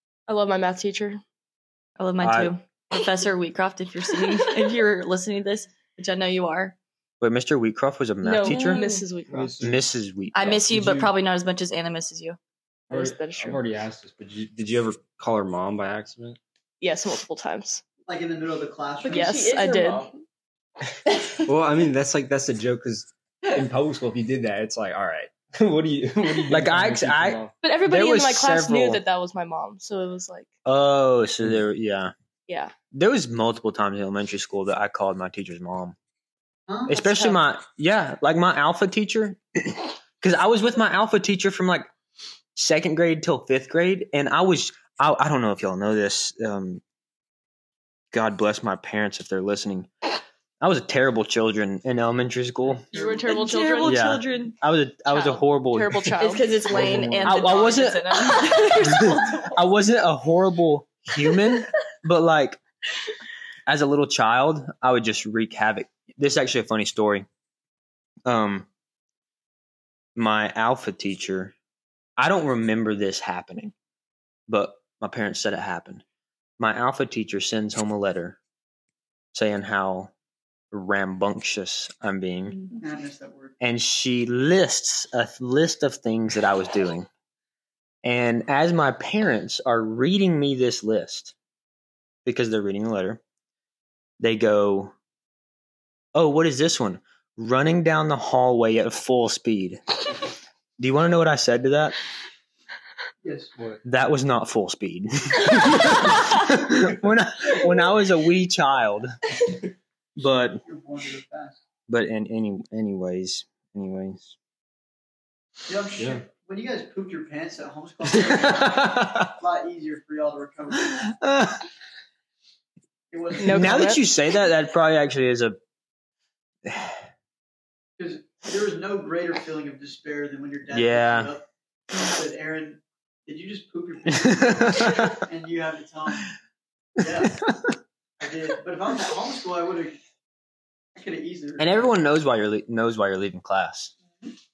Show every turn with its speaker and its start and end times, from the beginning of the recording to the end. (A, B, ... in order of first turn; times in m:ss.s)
0:00.3-0:01.2 A
0:02.0-0:06.8 B
0:02.2-0:02.5 C
0:07.2-0:08.8 C
0:08.2-0:09.5 A
0:08.4-0:09.0 B
0:09.3-0:09.9 D
0:09.6-0:10.6 C
0:10.3-0:12.4 B
0:10.4-0:11.1 D
0:12.9-0:13.6 A
0:12.9-0:16.4 D
0:16.8-0:17.8 A
0:18.0-0:19.5 E
0:19.0-0:20.1 B
0:19.1-0:20.1 A
0:21.4-0:27.5 D
0:26.5-0:29.0 C
0:27.6-0:30.5 A
0:30.6-0:32.1 C
0:32.5-0:32.7 A
0:32.9-0:36.0 C
0:36.7-0:37.0 E
0:36.9-0:41.9 C
0:42.5-0:46.8 C
0:48.1-0:50.1 C
0:50.6-0:52.8 C
0:52.9-0:54.0 A
0:53.0-0:54.6 B
0:53.8-0:56.1 C
0:55.1-0:55.4 B
0:55.7-0:56.6 A
0:56.2-0:59.6 B
0:56.7-0:57.3 D
0:56.7-1:02.6 C
0:58.2-0:59.2 A
1:03.7-1:07.2 C
1:08.2-1:08.7 C
1:10.2-1:11.5 C
1:12.2-1:13.7 C
1:14.5-1:16.0 C
1:16.6-1:18.4 C
1:19.3-1:20.1 C
1:20.7-1:22.6 C
1:22.5-1:22.8 B
1:22.7-1:23.5 E
1:23.6-1:27.1 C
1:28.0-1:31.3 C
1:32.2-1:33.2 C
1:34.2-1:34.9 C
1:36.1-1:39.8 C
1:40.8-1:42.0 C
1:43.2-1:43.5 E
1:43.8-1:49.1 C
1:50.2-1:50.6 C
1:50.6-1:51.6 E
1:51.9-1:54.3 C
1:55.6-2:01.1 E
1:56.0-1:56.2 D
1:58.2-1:59.3 C
2:00.9-2:01.6 C
2:03.1-2:03.8 E
2:03.4-2:04.0 A
2:03.4-2:05.6 C
2:06.6-2:07.0 C
2:08.0-2:16.3 E
2:10.7-2:11.3 C
2:14.1-2:15.1 C
2:17.0-2:17.4 E
2:17.2-2:17.6 C
2:18.2-2:20.0 E
2:20.9-2:21.9 E
2:21.6-2:23.9 C